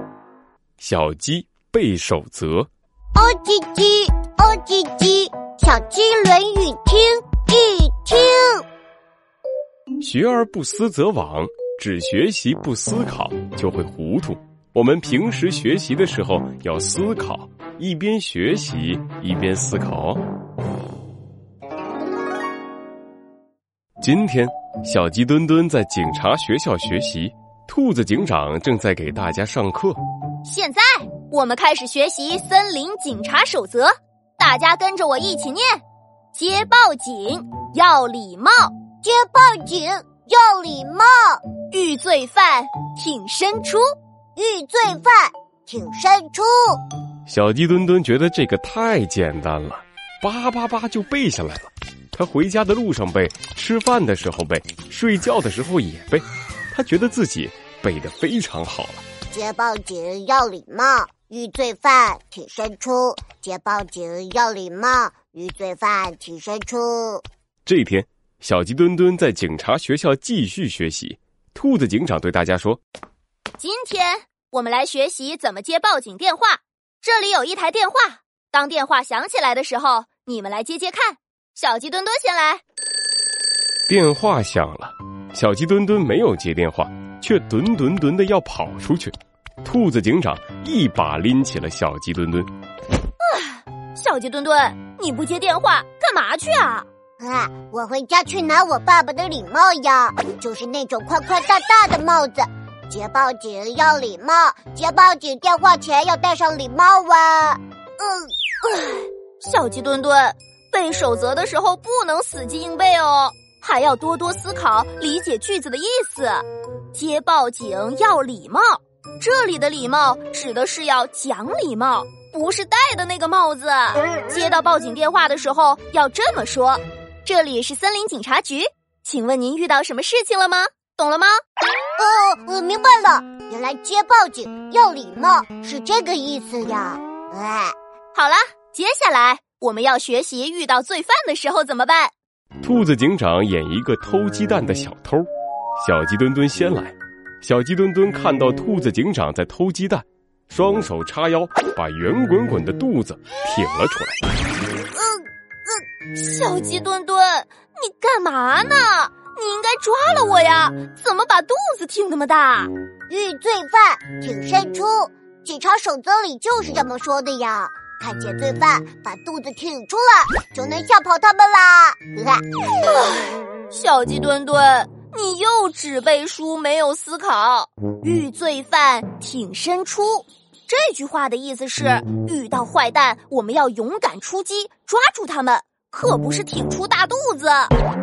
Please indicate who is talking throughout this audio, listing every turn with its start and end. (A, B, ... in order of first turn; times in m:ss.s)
0:00.8-0:02.7 A
0:03.1-0:08.6 B
0:10.0-0:20.2 A
0:24.0-0:30.0 A
0:30.4-0:35.8 C
0:36.3-0:38.8 C
0:39.0-0:41.4 B
0:41.7-0:43.8 C
0:44.4-0:46.8 B
0:47.3-0:59.0 A
0:59.3-1:07.2 B
1:07.6-1:12.8 A
1:13.6-1:22.6 C
1:23.9-1:29.1 A
1:29.6-1:32.5 A
1:33.2-1:36.9 C
1:37.2-1:48.2 B
1:48.1-2:11.4 C
2:12.0-2:17.7 B
2:18.1-2:22.1 C
2:22.6-2:25.3 A
2:25.8-2:34.2 A
2:36.1-2:42.7 C
2:43.1-2:52.4 B
2:52.8-3:07.7 C